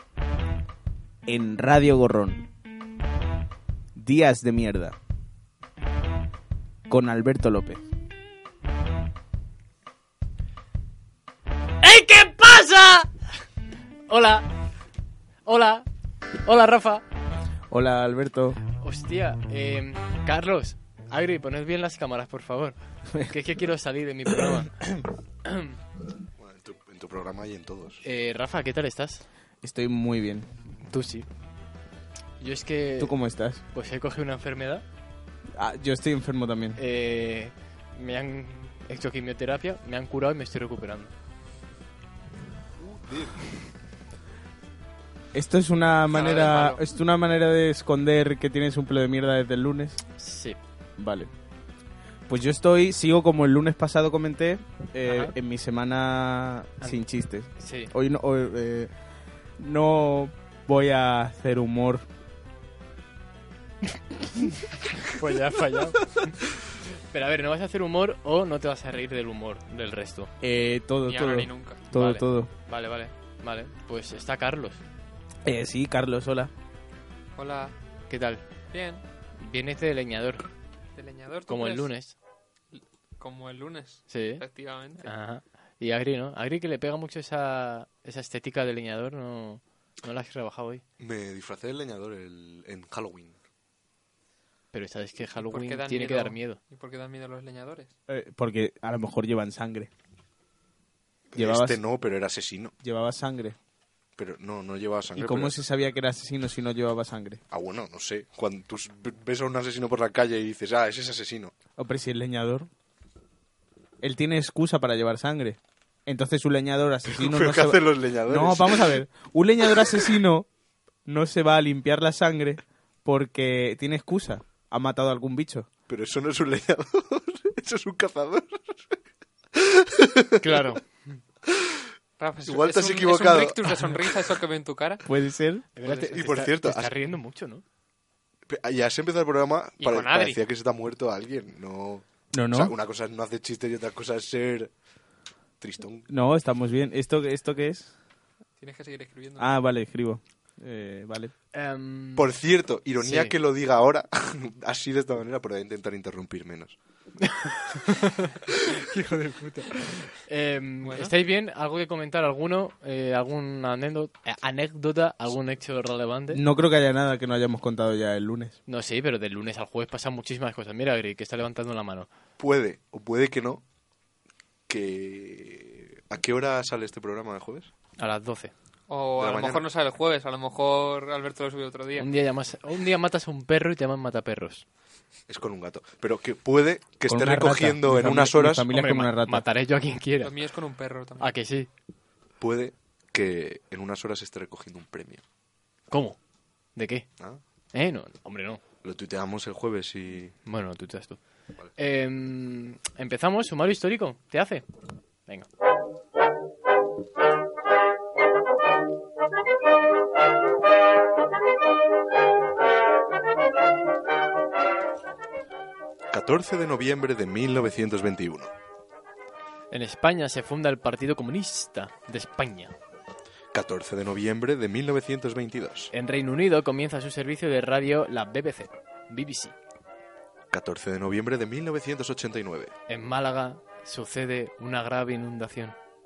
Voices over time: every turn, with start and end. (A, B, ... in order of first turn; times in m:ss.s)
0:01.3-0:02.5 A
0:04.0-0:05.0 A
0:06.9-0:07.8 A
0:11.8-0:13.2 B
0:14.1-0:14.5 B
0:15.4-0:15.9 B
0:16.4-0:17.0 B
0:17.7-0:18.6 A
0:18.8-0:24.9 B
0:25.4-0:25.8 B
0:26.4-0:28.0 C
0:28.0-0:29.2 B
0:29.6-0:30.5 A
0:30.8-0:31.3 B
0:32.4-0:33.2 B
0:33.0-0:33.6 A
0:33.7-0:34.8 B
0:35.6-0:36.8 A
0:36.8-0:41.1 B
0:42.8-0:43.5 C
0:45.3-0:50.0 A
0:46.1-0:46.8 D
0:50.2-0:50.6 B
0:51.0-0:51.3 A
0:52.3-0:58.9 A
0:55.1-0:55.3 B
0:57.6-0:57.9 B
0:59.6-1:02.0 A
1:05.1-1:10.3 B
1:10.4-1:12.5 A
1:11.0-1:11.8 D
1:11.9-1:14.8 B
1:15.4-1:16.5 A
1:17.4-1:17.7 D
1:18.1-1:18.4 B
1:18.7-1:19.0 D
1:19.4-1:20.5 B
1:21.0-1:21.9 D
1:21.5-1:22.1 B
1:22.7-1:25.1 D
1:24.1-1:24.4 B
1:25.0-1:30.8 B
1:31.0-1:33.4 C
1:34.7-1:36.6 B
1:35.5-1:37.9 D
1:38.1-1:39.9 A
1:41.3-1:42.7 C
1:41.4-1:41.8 A
1:42.8-1:43.6 A
1:44.2-1:45.6 C
1:45.2-1:47.4 A
1:47.5-1:51.5 C
1:51.8-1:52.7 A
1:54.0-2:00.5 A
1:57.1-1:59.0 C
2:01.0-2:05.7 A
2:05.9-2:08.8 C
2:09.5-2:10.6 C
2:10.4-2:11.2 B
2:11.5-2:11.8 C
2:12.2-2:15.1 D
2:12.4-2:14.2 C
2:15.0-2:15.7 A
2:15.8-2:17.6 B
2:16.0-2:16.9 C
2:18.5-2:24.7 C
2:19.8-2:20.4 D
2:22.3-2:22.7 A
2:25.6-2:26.1 C
2:26.1-2:27.9 A
2:28.6-2:29.5 D
2:29.4-2:31.3 A
2:31.5-2:32.3 B
2:32.2-2:36.8 C
2:33.0-2:33.3 B
2:37.2-2:46.4 B
2:40.8-2:41.1 D
2:46.3-2:48.6 A
2:48.7-2:52.1 B
2:52.4-2:53.6 C
2:54.7-2:57.7 C
2:58.0-2:58.5 B
2:58.9-3:02.1 D
2:59.2-2:59.6 C
3:02.0-3:04.6 B
3:05.3-3:08.7 C
3:07.1-3:09.4 A
3:08.7-3:10.4 B
3:10.2-3:11.3 D
3:11.2-3:11.7 B
3:12.4-3:15.2 C
3:15.9-3:16.2 B
3:16.8-3:17.1 B
3:17.7-3:18.6 B
3:18.8-3:20.3 C
3:20.4-3:21.2 B
3:21.8-3:24.7 B
3:36.1-3:38.5 C
3:39.7-3:42.7 B
3:43.5-3:45.9 C
3:45.9-3:49.5 B
3:50.5-3:52.7 C
3:52.9-3:55.8 B